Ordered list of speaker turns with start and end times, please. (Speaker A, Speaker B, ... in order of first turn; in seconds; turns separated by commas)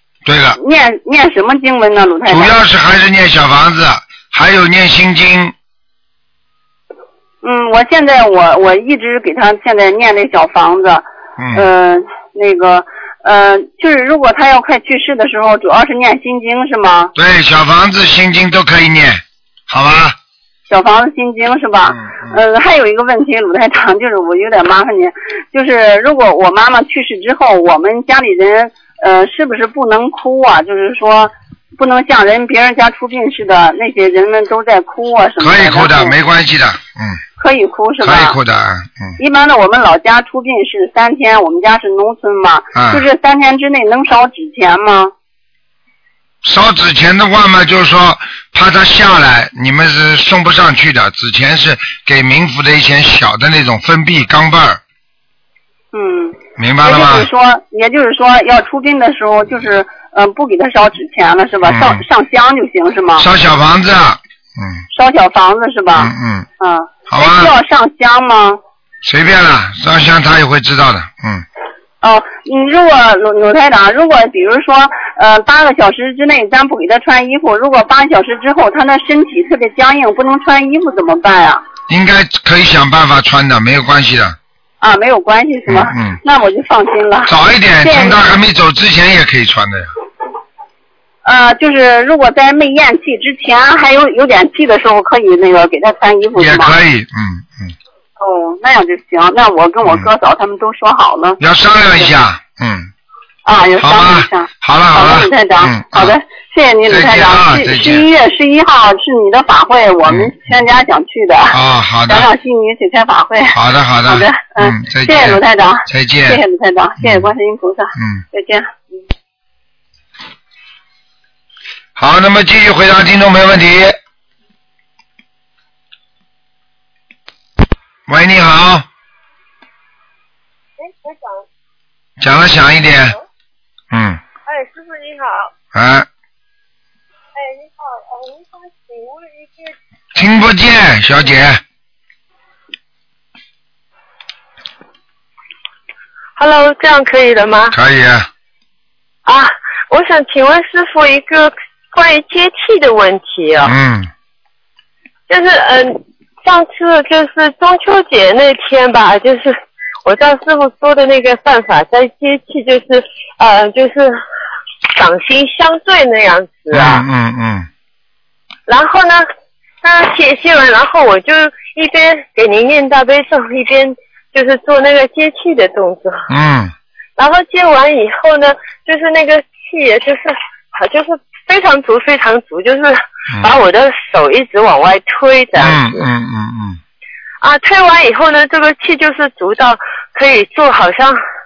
Speaker A: 0.2-0.6, Speaker B: 0.6-2.5, Speaker A: 2.3-5.5, Speaker B: 7.4-17.1, Speaker A: 11.4-11.7, Speaker A: 17.1-20.1, Speaker B: 20.7-36.1, Speaker A: 21.9-22.4, Speaker A: 35.4-37.2, Speaker B: 37.4-38.4, Speaker A: 38.0-39.2, Speaker B: 39.2-45.1, Speaker A: 42.7-43.0, Speaker A: 46.4-54.8, Speaker B: 55.9-63.2, Speaker A: 56.6-57.3, Speaker A: 61.6-62.0, Speaker A: 63.2-64.8, Speaker B: 64.9-68.6, Speaker A: 66.0-66.5, Speaker A: 67.1-67.5, Speaker A: 69.0-71.4, Speaker B: 72.0-81.6, Speaker A: 81.9-84.3, Speaker B: 84.8-87.3, Speaker A: 85.7-86.2, Speaker A: 87.3-89.9, Speaker B: 87.8-88.2, Speaker B: 91.2-96.7, Speaker A: 96.3-97.7, Speaker B: 98.2-101.4, Speaker A: 101.4-102.9, Speaker B: 103.5-111.5, Speaker A: 103.8-106.1, Speaker A: 106.9-108.0, Speaker A: 111.5-112.3, Speaker B: 112.1-118.7, Speaker A: 113.5-116.4, Speaker A: 117.0-117.3, Speaker A: 118.0-118.2, Speaker A: 122.0-124.0, Speaker A: 128.1-128.8, Speaker A: 132.2-133.2, Speaker A: 133.9-134.2, Speaker C: 134.5-135.5, Speaker A: 135.7-136.1, Speaker C: 138.9-139.2, Speaker A: 140.1-141.6, Speaker C: 146.3-147.8, Speaker A: 147.7-148.3, Speaker C: 149.2-153.7, Speaker A: 153.6-154.1, Speaker C: 155.3-164.2, Speaker C: 164.9-167.1, Speaker A: 166.7-167.7, Speaker C: 168.7-169.2, Speaker C: 169.8-176.3, Speaker A: 176.3-176.7, Speaker C: 177.2-186.1, Speaker A: 185.6-186.8, Speaker C: 187.4-191.2